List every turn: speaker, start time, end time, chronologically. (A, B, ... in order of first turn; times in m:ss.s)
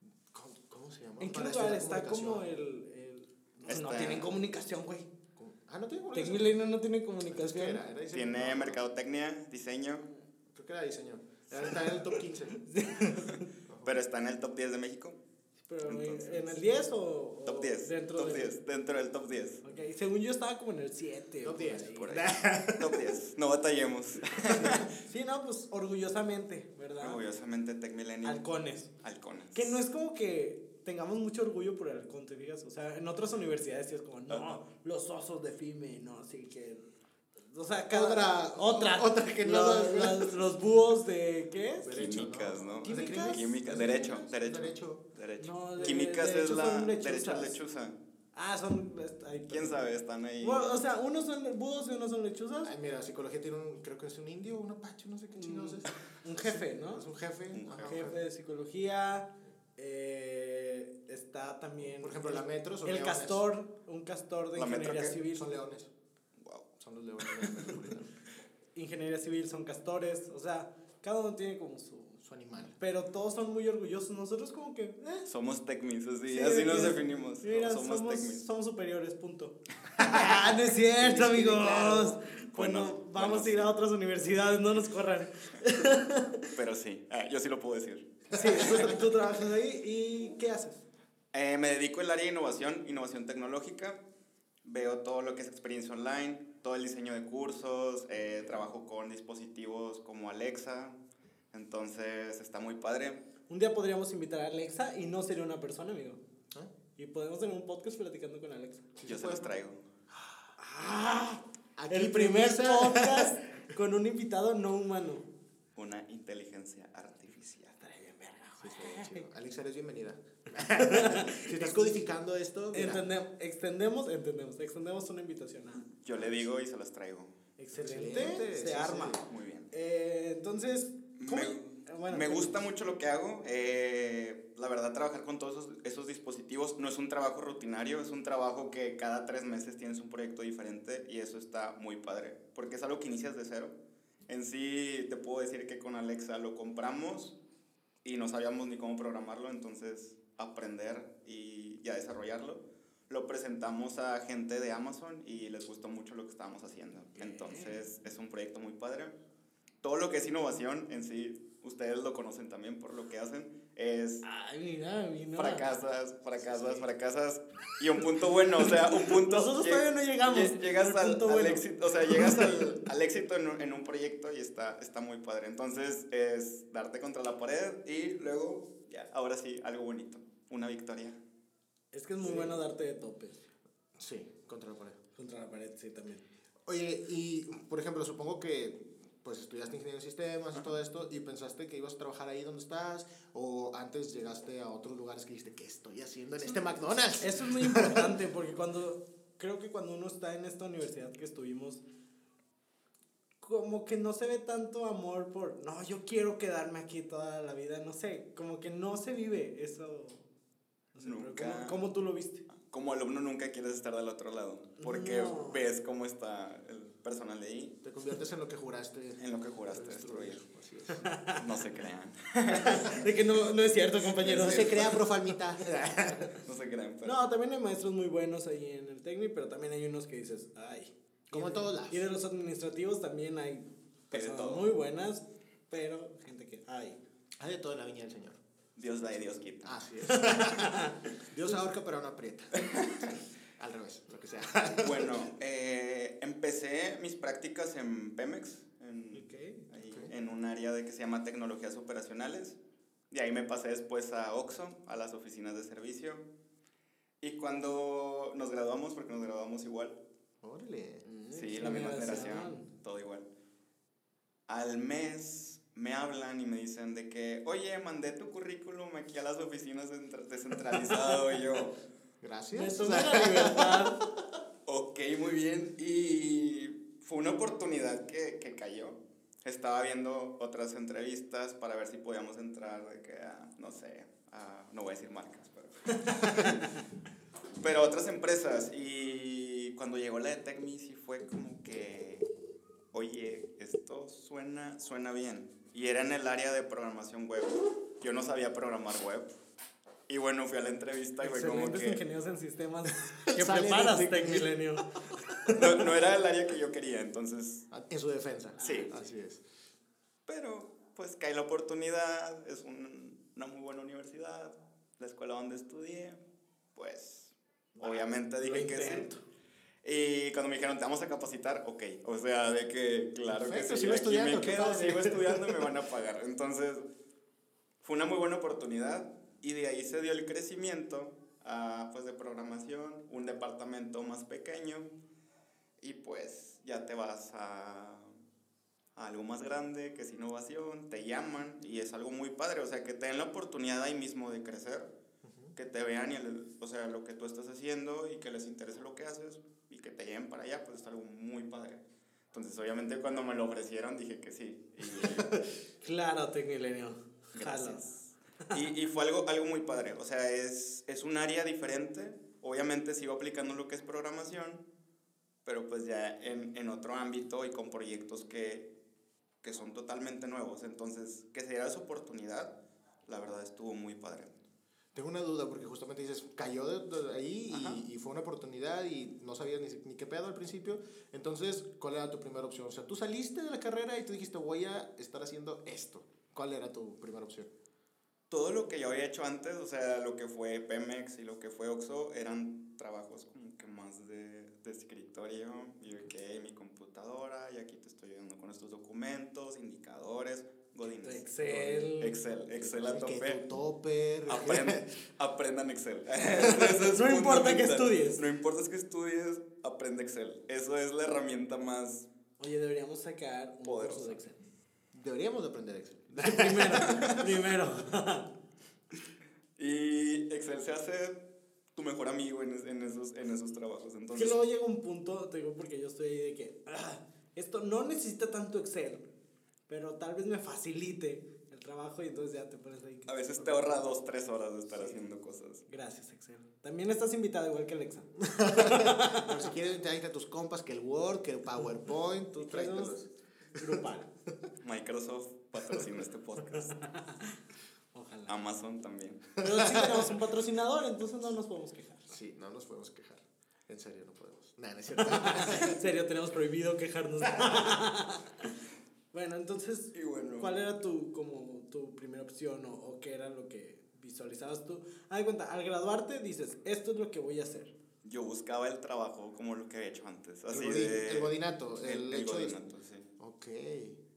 0:00.3-0:02.5 A
0:01.2-0:05.1 B
0:03.7-0:04.3 C
0:05.4-0:06.5 A
0:06.1-0:07.8 B
0:07.3-0:08.8 A
0:08.1-0:10.1 C
0:10.5-0:12.6 A
0:12.5-0:13.5 B
0:13.7-0:14.0 A
0:13.8-0:15.2 C
0:15.6-0:18.5 B
0:15.9-0:16.6 C
0:17.5-0:19.6 C
0:19.6-0:22.2 B
0:21.4-0:23.2 A
0:22.0-0:24.9 C
0:24.9-0:27.2 B
0:27.0-0:28.4 C
0:28.2-0:28.9 B
0:29.0-0:29.8 C
0:29.5-0:36.9 B
0:34.3-0:34.6 C
0:37.5-0:42.1 B
0:37.9-0:40.4 A
0:41.8-0:45.0 A
0:41.9-0:48.0 C
0:42.8-0:43.4 B
0:45.4-0:47.6 B
0:48.3-0:49.8 B
0:49.5-0:50.7 C
0:50.4-0:52.7 B
0:52.6-0:58.2 A
0:55.4-0:57.1 B
0:57.5-0:58.1 C
0:57.9-1:05.5 B
1:02.0-1:03.5 A
1:04.6-1:05.2 C
1:05.3-1:05.9 A
1:06.4-1:06.7 C
1:06.8-1:08.1 A
1:07.2-1:07.8 C
1:08.8-1:12.2 B
1:12.2-1:12.8 A
1:12.8-1:15.3 B
1:15.3-1:18.4 C
1:16.3-1:26.5 B
1:20.0-1:20.4 A
1:21.1-1:21.4 A
1:21.1-1:23.8 C
1:26.5-1:28.9 C
1:28.3-1:30.8 B
1:28.4-1:28.8 A
1:31.3-1:34.0 C
1:34.6-1:41.0 C
1:41.5-1:43.2 C
1:43.5-1:46.2 B
1:47.0-1:48.9 B
1:49.0-1:49.5 A
1:49.0-1:49.8 C
1:50.1-1:50.5 A
1:50.6-1:55.3 B
1:51.8-1:53.3 A
1:55.8-1:57.8 C
1:57.8-1:59.2 B
1:58.6-2:03.0 A
2:00.7-2:02.0 B
2:02.7-2:05.9 B
2:06.0-2:07.4 C
2:07.6-2:09.2 B
2:07.8-2:09.2 A
2:09.3-2:09.7 C
2:09.7-2:12.6 B
2:11.2-2:23.8 C
2:24.3-2:27.4 C
2:28.0-2:39.2 C
2:37.2-2:37.8 B
2:39.8-2:44.2 C
2:44.2-2:45.7 B
2:45.4-3:01.2 C
2:46.5-2:46.8 B
2:48.7-2:52.6 B
3:01.9-3:03.4 B
3:02.2-3:02.6 A
3:04.0-3:05.0 A
3:05.2-3:06.2 B
3:06.7-3:18.1 A
3:17.2-3:21.8 B
3:23.4-3:30.3 B
3:30.9-3:32.5 B
3:31.0-3:31.8 C
3:32.6-3:37.8 C
3:34.8-3:35.6 B
3:37.8-3:41.1 A
3:39.2-3:40.4 C
3:40.9-3:41.4 B
3:41.3-3:43.1 C
3:42.5-3:45.0 B
3:44.1-3:45.0 C
3:44.2-3:46.3 A
3:46.3-3:47.3 C
3:47.0-3:57.0 B
3:51.3-3:52.0 A
3:54.1-3:54.7 C
3:57.4-3:58.4 A
3:58.8-3:59.8 C
3:59.6-4:02.6 A
4:00.1-4:01.0 B
4:02.6-4:03.2 C
4:03.6-4:05.2 A
4:04.8-4:12.6 C
4:09.1-4:09.7 B
4:13.1-4:16.3 C
4:17.2-4:20.0 C
4:20.4-4:21.1 A
4:21.0-4:22.7 B
4:21.3-4:23.3 C
4:24.5-4:31.8 C
4:32.2-4:34.0 A
4:32.5-4:34.0 B
4:34.7-4:46.8 C
4:47.6-4:52.3 C
4:52.9-4:59.3 C
5:00.1-5:02.0 C
5:01.2-5:05.6 B
5:03.3-5:04.5 A
5:05.1-5:05.6 A
5:05.5-5:07.7 C
5:07.7-5:09.4 A
5:08.6-5:08.9 C
5:10.3-5:16.2 C
5:16.8-5:19.1 C
5:17.8-5:19.2 B
5:19.8-5:26.8 C
5:23.3-5:25.6 A
5:27.8-5:34.9 C
5:35.8-5:38.1 C
5:39.0-5:44.9 C
5:45.2-5:45.5 A
5:45.6-5:55.3 C
5:55.0-5:55.3 A
5:55.8-5:57.8 B
5:57.4-6:04.6 C
6:05.4-6:08.7 C
6:09.4-6:12.5 C
6:13.1-6:14.3 C
6:15.0-6:27.5 A
6:17.5-6:17.8 C
6:28.3-6:43.4 C
6:41.0-6:42.2 B
6:41.5-6:41.9 A
6:42.6-6:44.9 A
6:44.3-6:52.1 C
6:46.4-6:46.7 A
6:46.6-6:48.2 B
6:52.4-6:54.4 B
6:53.6-6:54.2 C
6:54.9-6:57.0 A
6:56.2-6:58.3 B
6:56.8-6:57.3 C
6:59.6-7:01.2 C
7:01.8-7:04.4 C
7:04.1-7:09.0 B
7:09.7-7:13.8 B
7:13.1-7:15.6 C
7:14.7-7:15.0 B
7:15.7-7:19.3 B
7:18.2-7:23.8 A
7:22.4-7:23.0 B
7:23.6-7:24.1 B
7:24.6-7:26.8 C
7:26.6-7:27.4 B
7:27.9-7:28.3 B
7:28.3-7:29.3 C
7:29.4-7:32.1 B
7:29.6-7:29.9 A
7:32.1-7:35.7 A
7:35.0-7:38.6 B
7:39.1-7:47.7 B
7:39.9-7:40.5 C
7:48.0-7:53.1 C
7:50.5-7:52.6 A
7:53.2-7:54.0 A